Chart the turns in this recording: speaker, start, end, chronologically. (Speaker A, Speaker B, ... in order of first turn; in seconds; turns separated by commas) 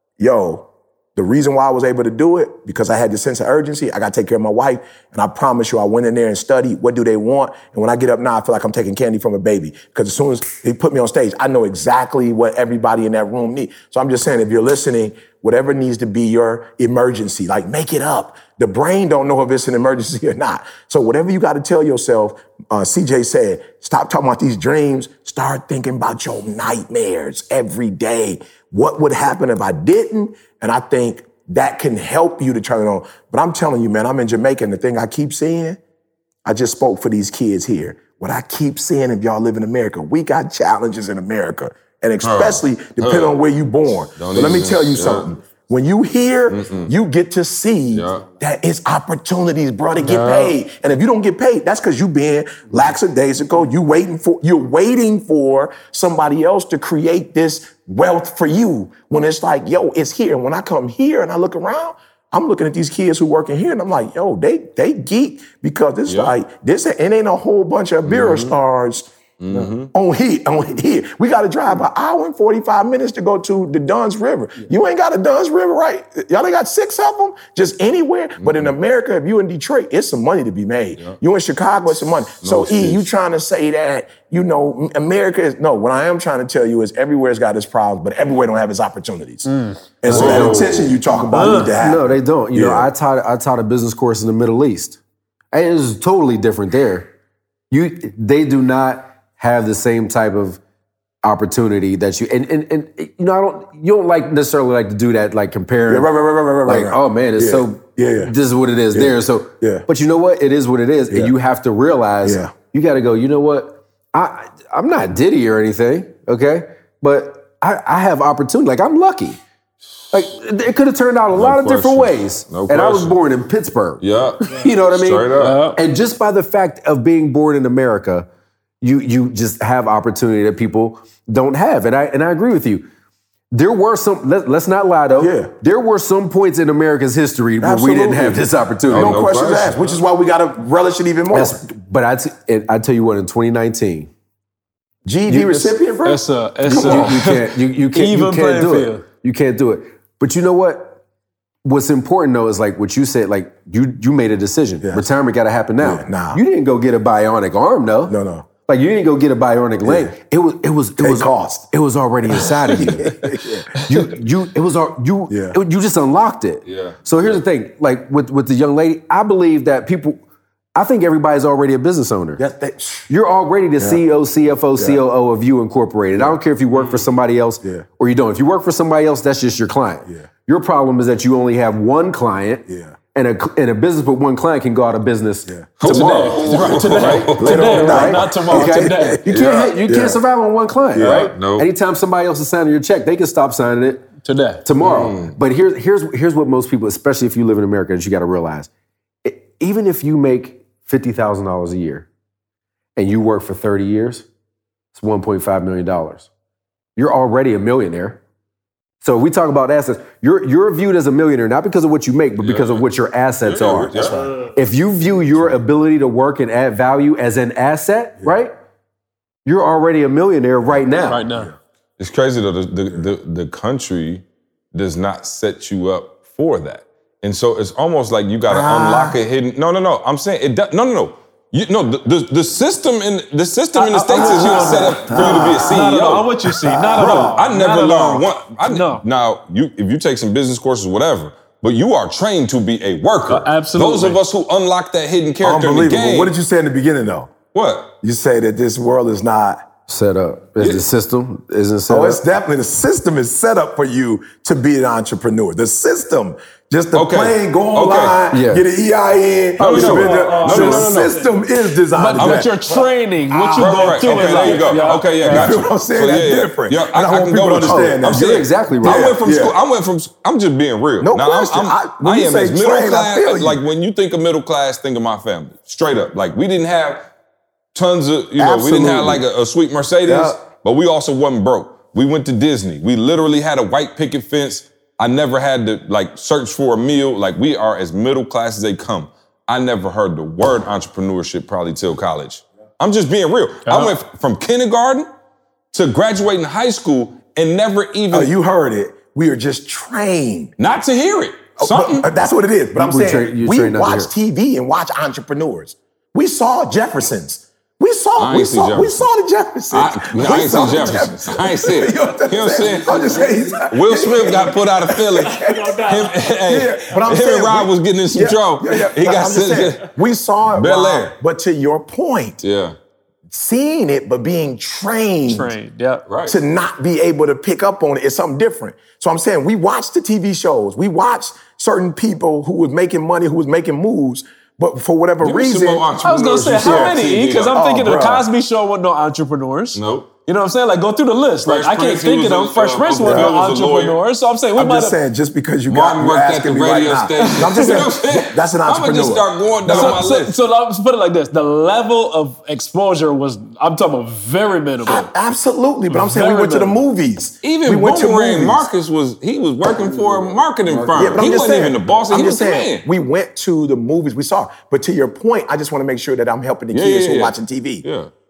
Speaker A: 0.2-35.8, Speaker A: 36.4-89.5, Speaker B: 42.2-43.3, Speaker B: 44.2-45.3, Speaker B: 46.5-46.9, Speaker B: 47.9-48.2, Speaker B: 66.0-66.3, Speaker B: 68.0-68.5, Speaker B: 69.4-69.9, Speaker B: 78.4-78.7, Speaker B: 82.4-83.0, Speaker A: 90.0-92.9, Speaker B: 90.1-90.9, Speaker C: 90.1-90.8, Speaker D: 91.3-91.7, Speaker C: 91.3-95.0, Speaker C: 95.5-97.1, Speaker C: 97.7-100.6, Speaker C: 101.2-106.1, Speaker A: 105.9-108.3, Speaker C: 106.7-119.4, Speaker A: 108.9-109.8, Speaker A: 112.2-112.5, Speaker C: 120.1-128.3, Speaker B: 121.3-123.2, Speaker B: 124.0-125.7, Speaker D: 125.3-125.8, Speaker C: 128.8-132.9, Speaker C: 133.5-139.2, Speaker A: 135.2-135.5, Speaker A: 137.6-141.6, Speaker B: 138.9-139.7, Speaker C: 141.3-144.1, Speaker A: 145.0-147.1, Speaker C: 145.3-145.7, Speaker D: 146.0-149.0, Speaker C: 146.6-151.0, Speaker C: 151.6-158.2, Speaker A: 155.8-156.4, Speaker A: 158.1-158.5, Speaker C: 158.7-170.2, Speaker A: 159.8-160.1, Speaker A: 161.0-161.7, Speaker A: 162.8-163.7, Speaker A: 165.3-165.6, Speaker B: 166.6-167.4, Speaker C: 170.8-172.4, Speaker A: 172.4-173.1, Speaker C: 173.1-194.1, Speaker D: 176.7-177.1, Speaker A: 182.7-182.9, Speaker A: 185.5-186.8, Speaker B: 185.8-188.0, Speaker D: 185.8-189.2, Speaker A: 187.4-190.2, Speaker A: 190.9-191.3, Speaker B: 191.0-191.7, Speaker D: 191.0-191.3, Speaker D: 194.2-194.6, Speaker C: 194.6-198.7, Speaker B: 194.8-195.3, Speaker C: 199.2-202.1, Speaker C: 203.0-204.2, Speaker C: 204.9-206.3, Speaker C: 206.9-208.2, Speaker C: 209.0-218.5, Speaker B: 212.4-212.8, Speaker B: 213.4-214.2, Speaker A: 213.9-214.4, Speaker C: 219.4-221.2, Speaker D: 221.0-221.5, Speaker B: 222.0-224.2, Speaker B: 224.7-236.3, Speaker A: 228.5-229.2, Speaker D: 233.7-239.0, Speaker A: 234.1-235.8, Speaker A: 236.5-237.4, Speaker B: 237.0-246.3, Speaker D: 243.3-244.2, Speaker A: 245.4-247.3, Speaker B: 247.5-247.9, Speaker A: 248.0-249.7, Speaker C: 249.9-252.2, Speaker B: 250.6-250.8, Speaker A: 251.9-268.3, Speaker B: 256.9-258.2, Speaker C: 258.3-258.6, Speaker D: 259.6-261.3, Speaker B: 259.6-261.2, Speaker D: 261.9-265.7, Speaker B: 262.1-262.5, Speaker B: 263.6-277.1, Speaker C: 268.0-269.1, Speaker A: 268.8-269.5, Speaker A: 271.0-273.6, Speaker B: 277.7-295.1, Speaker A: 278.4-279.2, Speaker A: 280.1-280.4, Speaker D: 293.6-293.9, Speaker B: 295.7-298.3, Speaker A: 298.1-300.5, Speaker B: 300.6-302.1, Speaker A: 301.6-315.8, Speaker C: 302.8-304.1, Speaker B: 308.2-309.1, Speaker B: 309.7-319.9, Speaker D: 312.9-313.6, Speaker D: 315.3-316.2, Speaker A: 316.4-322.4, Speaker B: 320.5-321.1, Speaker B: 322.4-322.8, Speaker A: 323.3-325.5, Speaker D: 325.3-326.0, Speaker B: 326.1-326.4, Speaker A: 326.2-335.9, Speaker B: 335.2-337.6, Speaker D: 336.0-345.0, Speaker A: 336.6-337.0, Speaker A: 337.5-338.3, Speaker B: 339.7-340.1, Speaker B: 341.4-344.0, Speaker A: 343.0-343.3, Speaker A: 344.6-349.3, Speaker B: 345.7-350.3, Speaker D: 347.2-347.8, Speaker D: 349.6-355.1, Speaker A: 354.8-358.7, Speaker D: 355.9-356.8, Speaker B: 357.4-362.8, Speaker C: 359.9-361.2, Speaker A: 360.9-367.8, Speaker B: 366.7-368.1